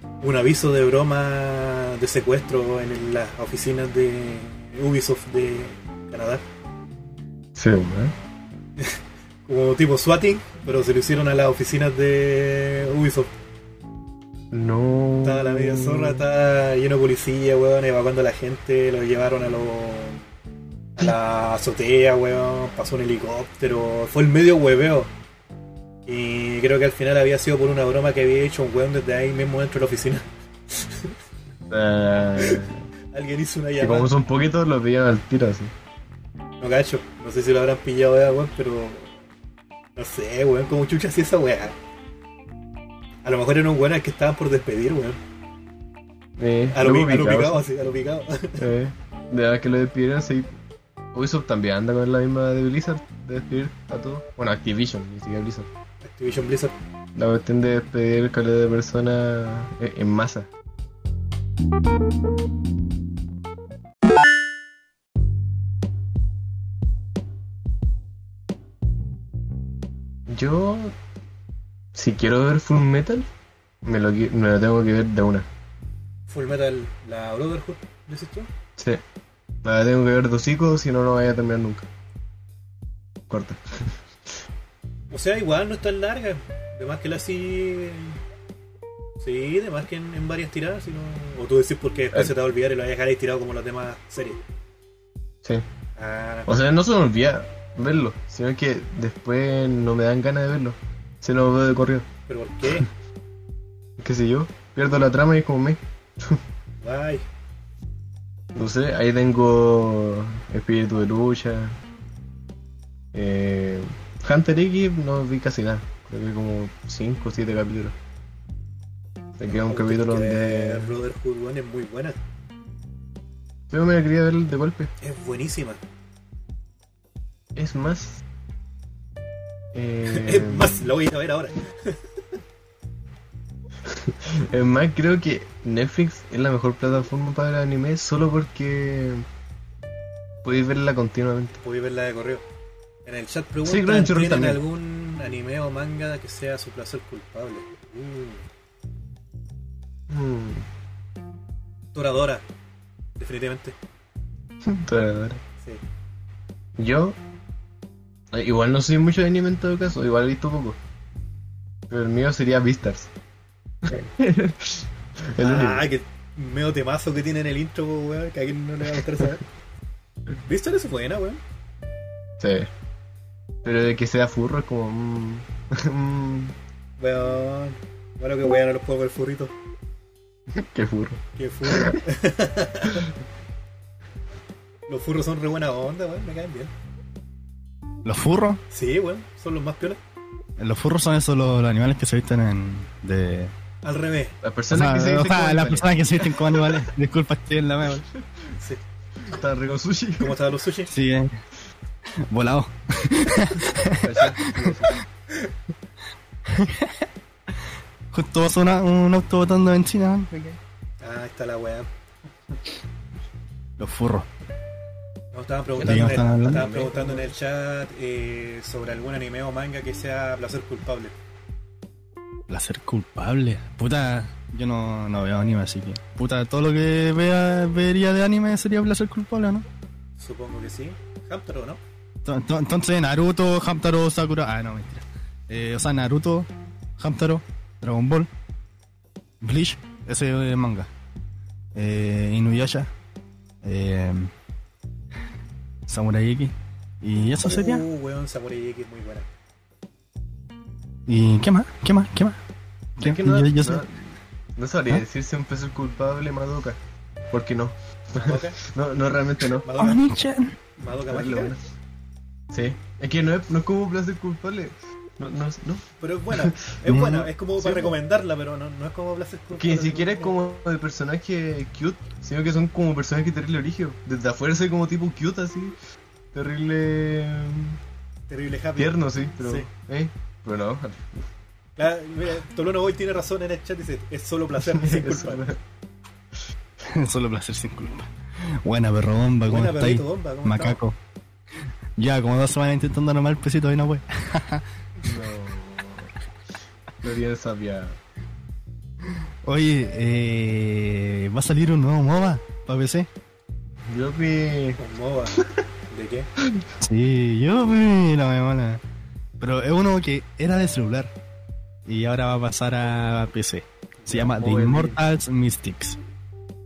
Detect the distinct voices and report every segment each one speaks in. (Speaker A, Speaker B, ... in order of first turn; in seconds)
Speaker A: 0.2-6.4, 8.8-13.3, 15.2-20.2, 21.0-25.1, 26.1-31.1, 32.4-34.1, 36.6-39.2, 40.0-41.8, 43.2-45.2, 46.7-48.6, 56.0-56.7, 76.3-78.5, 85.1-88.2, 89.2-94.4, 96.0-96.6, 102.3-102.9, 106.8-107.2, 119.6-122.2, 125.0-125.8, 130.1-132.0, 141.6-142.4, 143.1-148.4, 151.9-152.4, 153.2-153.8, 165.4-169.4, 170.4-171.4, 177.0-179.5, 181.4-183.0, 184.9-186.7, 188.7-190.0, 193.8-194.4, 200.2-200.9, 211.0-211.9, 215.3-221.1, 230.2-231.8, 247.4-249.3, 258.2-258.6, 259.6-260.0, 260.8-261.5, 266.0-270.3, 278.3-279.7, 281.8-285.4, 289.5-290.8, 304.8-306.3
Speaker B: 7.5-8.1, 14.5-16.2, 31.7-32.9, 33.8-35.7, 46.4-47.6, 48.6-50.5, 51.1-55.7, 57.1-60.5, 70.3-71.0, 71.9-73.3, 73.8-75.5, 79.6-81.9, 83.3-84.0, 96.5-102.1, 104.0-106.4, 108.5-111.8, 113.1-117.9, 119.4-121.0, 123.7-124.9, 127.5-128.2, 129.7-130.8, 133.8-139.2, 140.4-141.6, 143.6-144.6, 150.1-150.7, 154.6-155.4, 156.8-157.2, 158.3-160.8, 161.9-163.1, 163.8-165.9, 172.4-172.7, 173.6-176.6, 180.5-182.0, 194.4-195.9, 199.2-200.4, 204.0-205.0, 215.7-217.3, 253.0-256.8, 257.3-259.7, 261.1-261.6, 262.5-266.6, 267.6-268.0, 269.5-275.8, 276.3-277.8, 278.8-281.3, 284.6-285.6, 295.0-296.1, 297.0-298.0, 303.9-304.8, 306.4-306.7, 314.1-315.0
Speaker C: 188.0-188.6, 190.6-193.5, 194.7-198.1, 200.9-201.3, 202.2-205.0, 206.5-207.6, 208.1-210.6, 213.8-214.3, 215.8-216.7, 222.5-229.6, 232.2-238.3, 239.4-240.9, 241.7-242.9, 243.6-244.3, 245.9-247.8, 251.1-252.4, 253.0-253.8, 259.8-260.6, 266.9-267.3, 286.8-291.0, 292.0-294.6, 299.4-303.1, 306.8-308.8, 309.4-311.1, 311.9-316.0